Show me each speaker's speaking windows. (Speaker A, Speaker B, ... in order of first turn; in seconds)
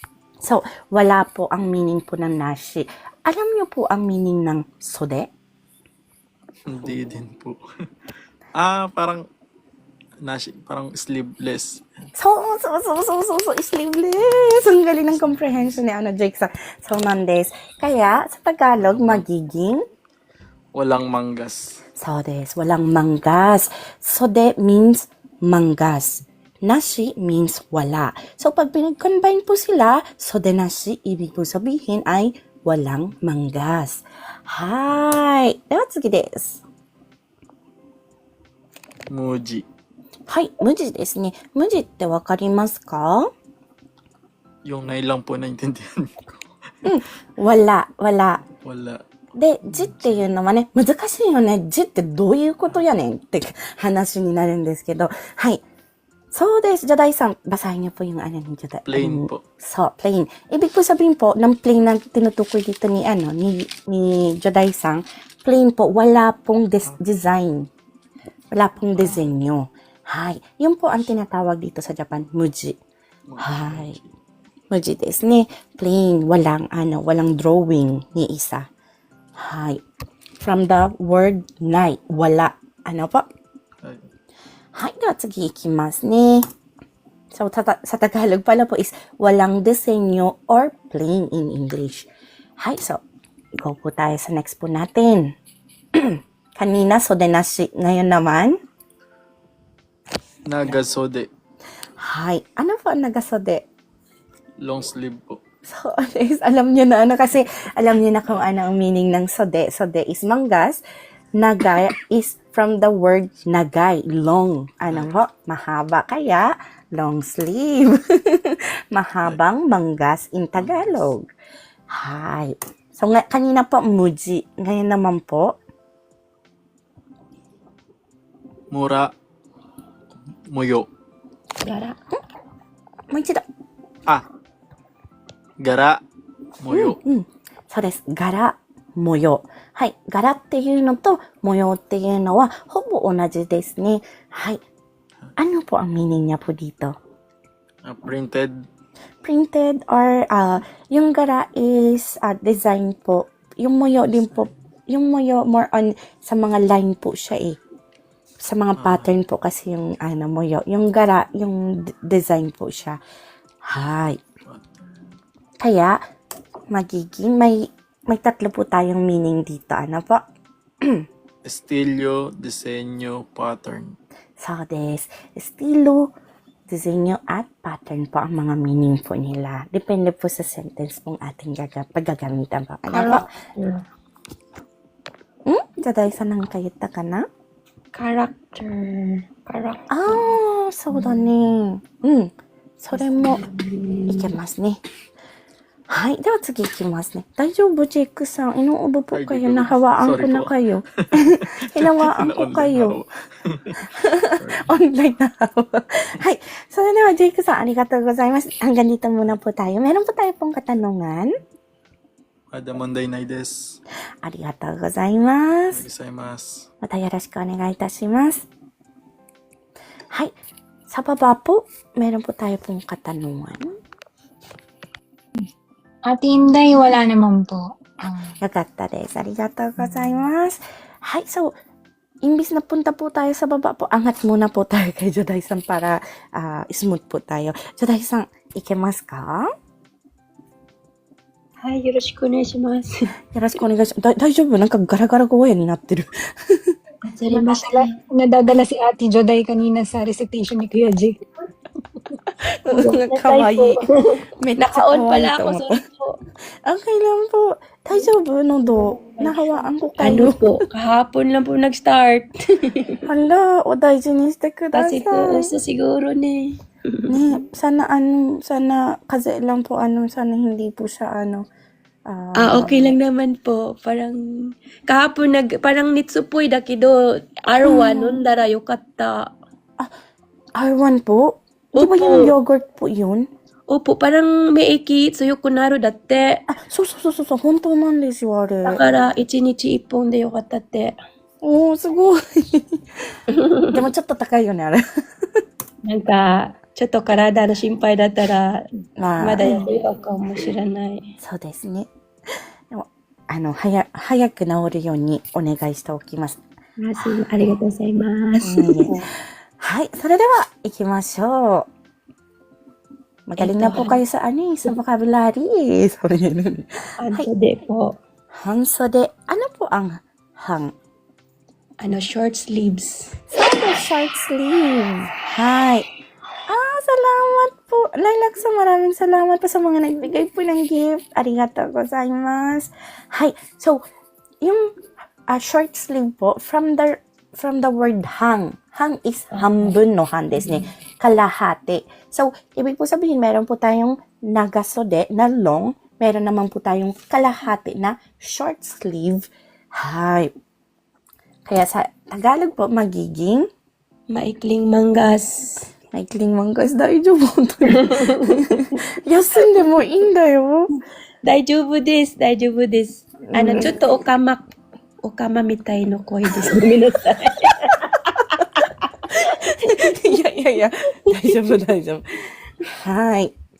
Speaker A: 0.4-5.3, 12.1-19.8, 22.0-36.6, 40.3-43.3, 46.8-48.4, 49.4-55.6, 56.3-67.7, 68.5-72.8, 73.4-74.0, 74.7-78.7, 79.4-79.8, 80.4-83.3, 84.7-86.4, 87.3-93.0, 93.6-95.3, 96.0-98.6, 102.0-103.7, 105.6-110.8, 111.4-121.3, 121.9-125.5, 133.1-133.4, 136.7-144.6, 145.4-146.9, 149.2-157.6, 158.4-163.0, 163.7-164.2, 165.6-165.9, 166.7-170.2, 174.4-176.1, 176.7-183.2, 185.4-187.3, 189.9-193.4, 194.1-194.8, 195.9-203.0, 203.9-211.3, 214.2-215.8, 216.8-218.5, 220.9-223.7, 228.4-231.6, 232.2-239.5, 243.3-246.7, 252.4-253.8, 254.4-255.7, 256.6-260.4, 263.0-265.5, 267.1-271.4, 272.1-272.9, 277.6-278.2, 280.6-283.3, 286.5-288.8, 291.4-292.8, 293.7-294.8, 299.0-299.6, 301.2-301.9, 302.7-306.4, 308.4-309.0, 309.6-311.7, 313.3-317.2, 318.4-320.7, 323.3-325.9, 326.5-333.8, 334.4-334.8, 335.3-350.3, 351.4-353.5, 355.9-360.7, 363.2-363.7, 369.2-372.0, 372.7-373.3
Speaker B: 6.7-7.6, 8.6-9.2, 10.2-11.8, 15.1-15.8, 18.8-19.2, 20.7-21.8, 39.1-39.6, 44.6-46.5, 48.6-49.0, 49.7-50.2, 58.9-59.4, 73.3-74.1, 83.8-84.1, 100.5-101.3, 104.6-105.4, 120.6-121.1, 128.7-129.1, 130.5-130.9, 135.6-136.0, 136.6-137.0, 147.8-148.6, 158.8-159.1, 164.4-165.0, 171.4-173.9, 199.1-200.5, 201.2-203.8, 204.4-204.7, 212.5-213.8, 215.7-216.7
Speaker C: 131.6-132.0, 182.9-183.8, 187.9-190.2, 190.9-191.2, 192.9-194.2, 241.6-242.9, 247.1-247.8, 252.7-256.2, 258.7-263.0, 264.7-267.1, 272.4-279.2, 281.7-282.3, 283.7-286.4, 288.6-290.9, 293.3-293.7, 295.8-298.6, 299.2-301.1, 306.8-309.1, 313.4-314.0, 317.0-318.0, 321.8-323.1, 339.3-339.7, 354.1-355.7, 357.7-358.4, 361.2-364.4, 365.0-370.0
Speaker D: 226.0-228.3, 247.3-251.2